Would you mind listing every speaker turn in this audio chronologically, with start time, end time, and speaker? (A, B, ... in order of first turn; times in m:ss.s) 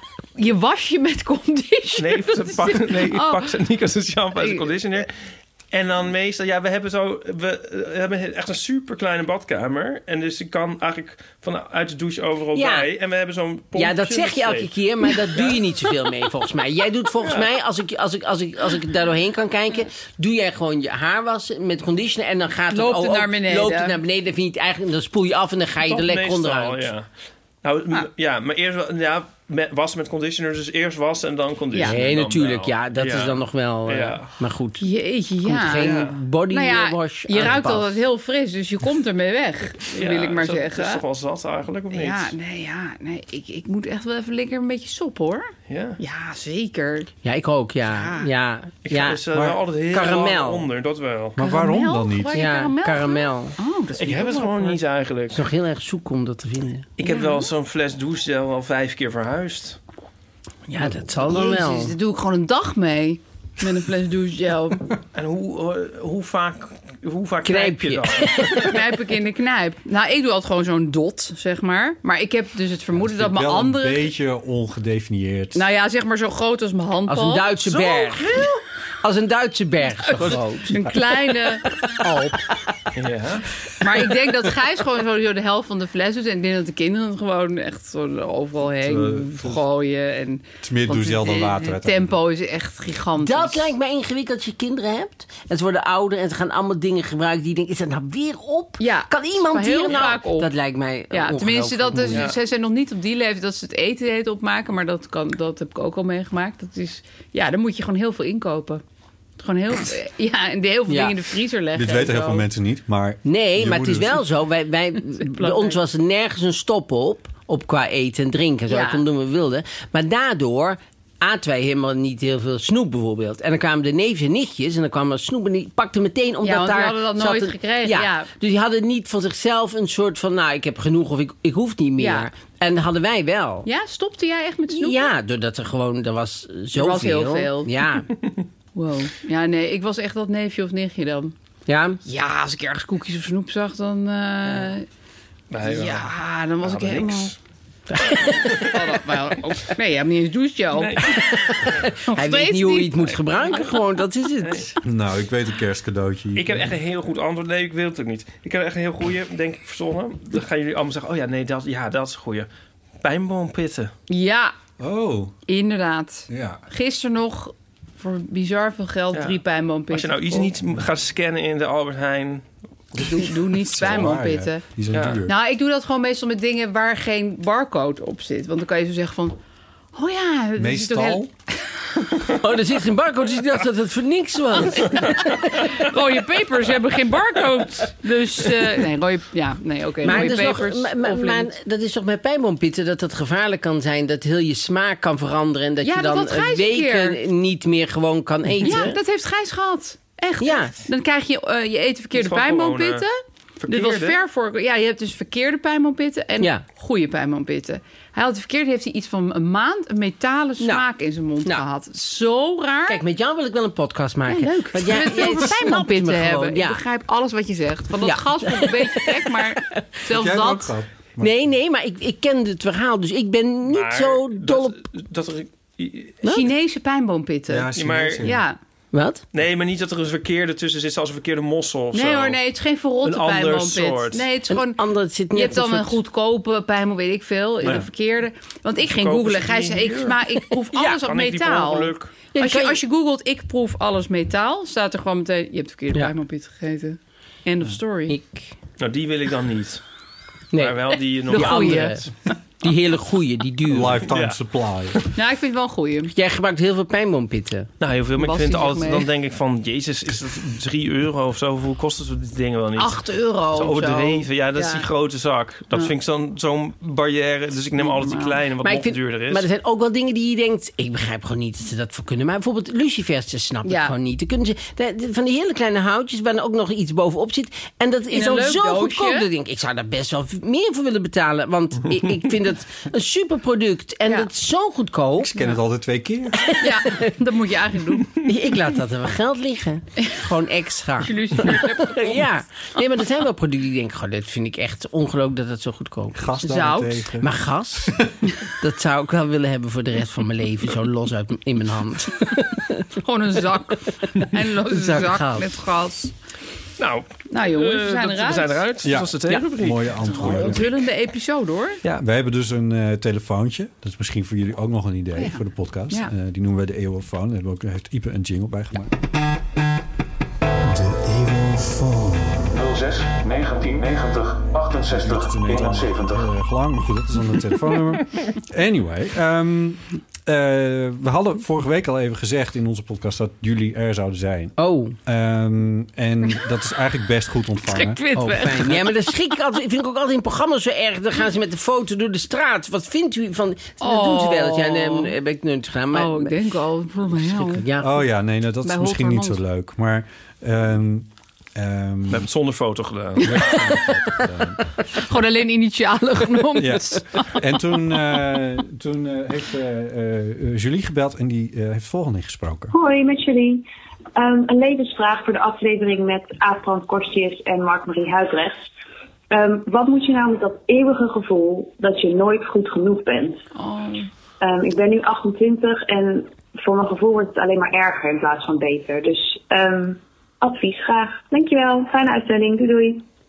0:00.4-0:03.4 A
0:02.0-0:05.1 B
0:04.4-0:04.6 A
0:05.7-0:15.6 B
0:12.5-0:12.9 C
0:13.7-0:26.9 C
0:17.2-0:17.5 B
0:22.7-0:24.0 A
0:25.8-0:27.1 B
0:27.6-0:34.3 B
0:31.8-0:34.8 C
0:34.8-0:35.9 A
0:35.4-0:37.9 C
0:35.8-0:36.2 B
0:36.5-0:41.0 A
0:39.9-0:42.3 B
0:41.9-0:47.1 A
0:45.7-0:46.0 B
0:47.2-0:49.2 C
0:47.9-0:48.3 A
0:48.8-0:51.4 B
0:49.3-0:49.6 D
0:49.9-0:50.6 C
0:51.4-0:52.4 D
0:51.4-0:54.8 A
0:52.3-0:53.6 C
0:54.0-0:55.4 B
0:55.3-0:56.9 C
0:57.0-0:59.8 B
0:57.0-0:57.4 A
1:00.7-1:01.9 C
1:01.3-1:04.8 A
1:05.1-1:08.6 B
1:07.4-1:08.8 C
1:08.6-1:14.1 A
1:12.9-1:15.6 D
1:15.5-1:17.8 A
1:17.1-1:18.3 C
1:17.7-1:18.2 B
1:19.0-1:20.8 C
1:20.1-1:22.5 A
1:22.9-1:23.5 B
1:23.8-1:33.7 A
1:28.8-1:29.6 D
1:30.6-1:32.2 D
1:33.2-1:42.3 C
1:38.8-1:40.5 A
1:41.1-1:48.8 A
1:49.4-1:52.4 A
1:50.9-1:51.2 C
1:51.7-1:54.2 D
1:53.2-2:13.6 C
1:55.2-1:55.8 A
1:58.7-1:59.0 A
2:06.4-2:08.3 A
2:12.0-2:12.3 A
2:13.6-2:15.1 A
2:14.7-2:18.1 C
2:16.7-2:17.7 A
2:18.7-2:21.3 A
2:21.7-2:22.0 C
2:22.0-2:24.8 A
2:25.5-2:27.4 B
2:25.6-2:27.3 A
2:27.9-2:28.8 C
2:28.4-2:31.2 A
2:30.7-2:31.8 B
2:31.2-2:34.7 C
2:32.1-2:33.2 A
2:33.3-2:33.8 B
2:34.4-2:34.7 B
2:34.8-2:36.7 D
2:36.3-2:42.5 B
2:43.0-2:43.9 B
2:44.1-2:44.5 A
2:44.8-2:45.4 D
2:45.5-2:50.5 A
2:46.3-2:46.6 D
2:49.1-2:52.4 B
2:53.0-2:54.6 A
2:53.0-2:55.3 D
2:54.9-2:55.2 B
2:55.2-2:59.4 A
2:59.9-3:01.3 A
3:00.6-3:01.3 D
3:02.3-3:05.7 C
3:04.8-3:11.5 A
3:10.0-3:19.0 C
3:15.8-3:17.2 A
3:18.6-3:23.1 A
3:20.4-3:20.8 C
3:22.1-3:23.0 B
3:23.6-3:24.2 B
3:23.7-3:33.0 A
3:26.4-3:26.6 C
3:30.6-3:30.8 C
3:32.9-3:36.8 C
3:34.3-3:40.7 A
3:38.0-3:39.9 C
3:40.1-3:41.4 D
3:41.2-3:44.8 C
3:43.6-3:46.2 B
3:46.2-3:46.5 C
3:46.2-3:48.6 A
3:47.5-3:48.4 D
3:47.7-3:48.3 B
3:48.9-3:49.2 C
3:49.3-3:52.4 B
3:51.9-4:08.2 A
3:53.0-3:54.3 B
3:54.5-3:56.0 C
3:58.9-4:00.2 B
4:00.9-4:02.1 B
4:02.3-4:02.8 C
4:08.1-4:08.5 C
4:08.8-4:09.8 B
4:10.5-4:12.1 C
4:10.5-4:12.1 B
4:11.3-4:12.0 A
4:12.6-4:14.1 C
4:13.7-4:15.0 D
4:14.1-4:14.4 B
4:15.1-4:16.1 A
4:16.1-4:17.7 C
4:17.8-4:23.0 B
4:18.2-4:19.1 A
4:22.8-4:24.8 A
4:23.5-4:29.4 B
4:27.8-4:28.4 A
4:28.6-4:45.5 C
4:33.6-4:33.9 A
4:38.1-4:39.3 A
4:45.2-4:46.5 D
4:46.4-4:47.1 C
4:46.6-4:48.2 A
4:48.2-4:56.4 C
4:51.0-4:52.2 A
4:56.1-4:58.2 D
4:56.4-4:57.0 A
4:57.2-4:58.0 C
4:58.6-5:02.9 C
5:03.0-5:06.1 A
5:04.2-5:05.5 C
5:06.8-5:10.6 B
5:07.3-5:08.6 A
5:08.8-5:10.7 D
5:10.1-5:11.8 A
5:12.0-5:18.9 D
5:15.2-5:16.1 A
5:20.6-5:22.8 D
5:24.6-5:34.5 D
5:34.6-5:35.0 C
5:35.0-5:38.0 D
5:37.7-5:39.0 A
5:38.1-5:46.3 C
5:43.8-5:45.1 A
5:45.9-5:47.6 A
5:47.2-5:48.0 C
5:47.8-5:52.3 D
5:48.6-5:49.4 A
5:52.1-5:53.7 B
5:53.2-5:54.7 D
5:54.9-5:57.4 A
5:56.6-6:02.7 D
6:02.7-6:08.7 E
6:09.3-6:13.4 E
6:13.5-6:14.1 A
6:14.4-6:23.0 E